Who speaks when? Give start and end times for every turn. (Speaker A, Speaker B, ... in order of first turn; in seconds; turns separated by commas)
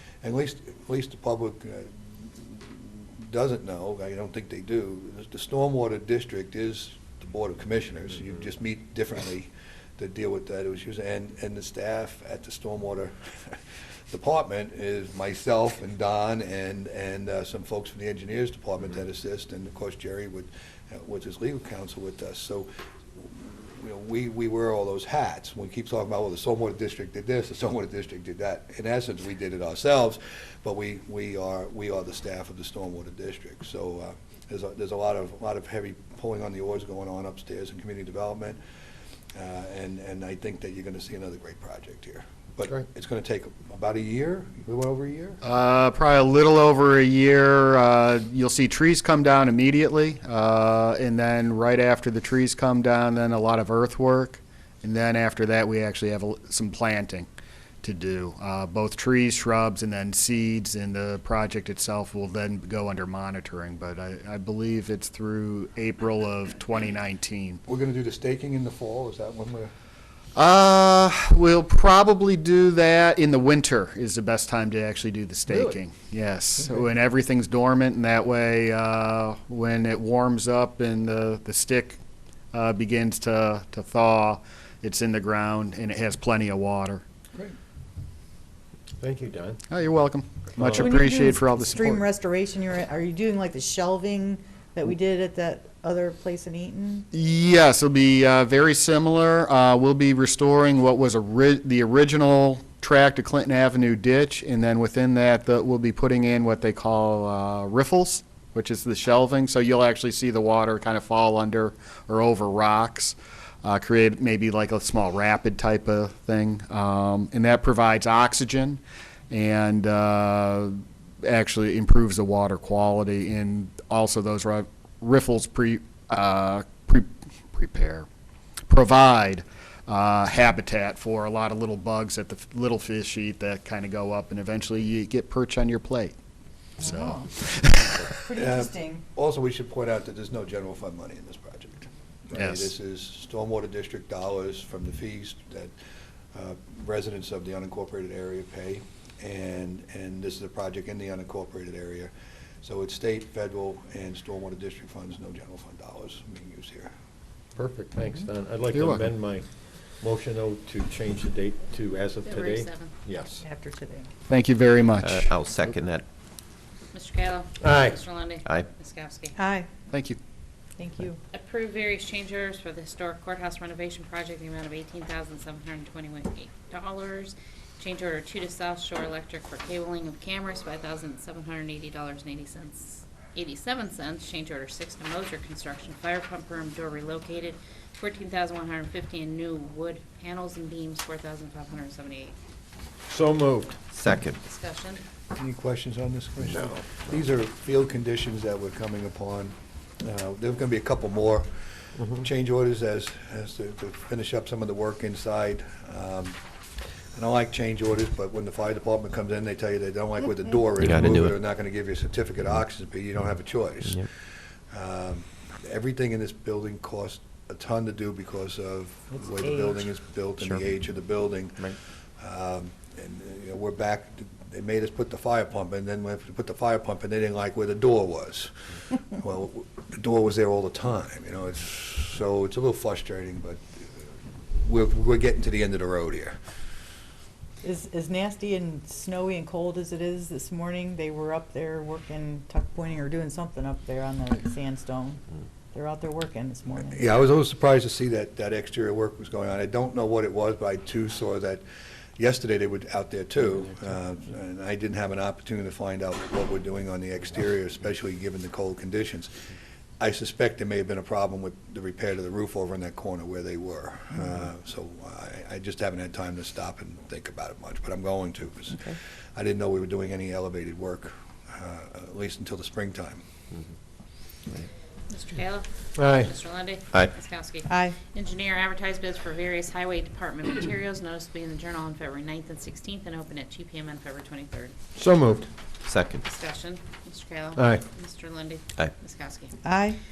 Speaker A: 0.2-38.6, Speaker A: 39.3-45.4, Speaker B: 45.4-57.3, Speaker B: 57.8-67.6, Speaker A: 67.7-69.7, Speaker B: 70.3-82.0, Speaker B: 82.5-87.0, Speaker C: 89.0-89.6, Speaker B: 89.7-92.0, Speaker D: 90.8-97.1, Speaker B: 97.1-128.1, Speaker B: 128.7-136.2, Speaker B: 136.8-138.1, Speaker D: 136.8-137.3, Speaker D: 138.1-139.0, Speaker A: 138.3-145.7, Speaker B: 142.3-142.7, Speaker A: 146.3-152.1, Speaker A: 152.6-156.9, Speaker C: 157.6-163.4, Speaker B: 158.7-159.1, Speaker E: 162.2-162.9, Speaker D: 163.4-164.1, Speaker B: 164.3-165.3, Speaker F: 165.1-166.0, Speaker E: 166.9-169.4, Speaker C: 167.6-168.1, Speaker D: 169.4-169.7, Speaker B: 169.9-170.2, Speaker D: 170.8-171.2, Speaker E: 171.3-192.3, Speaker C: 193.1-193.8, Speaker F: 194.0-194.3, Speaker E: 194.4-195.0, Speaker A: 195.3-201.5, Speaker A: 202.2-206.4, Speaker A: 207.2-214.1, Speaker F: 210.9-211.3, Speaker A: 214.7-233.6, Speaker A: 234.5-236.4, Speaker D: 237.6-245.2, Speaker D: 245.7-247.1, Speaker A: 246.9-251.6, Speaker A: 252.2-259.3, Speaker A: 260.0-273.2, Speaker E: 275.1-284.8, Speaker C: 275.9-276.3, Speaker D: 277.7-277.9, Speaker C: 284.9-285.5, Speaker F: 285.9-286.2, Speaker E: 286.2-289.6, Speaker C: 287.6-287.8, Speaker D: 289.6-290.0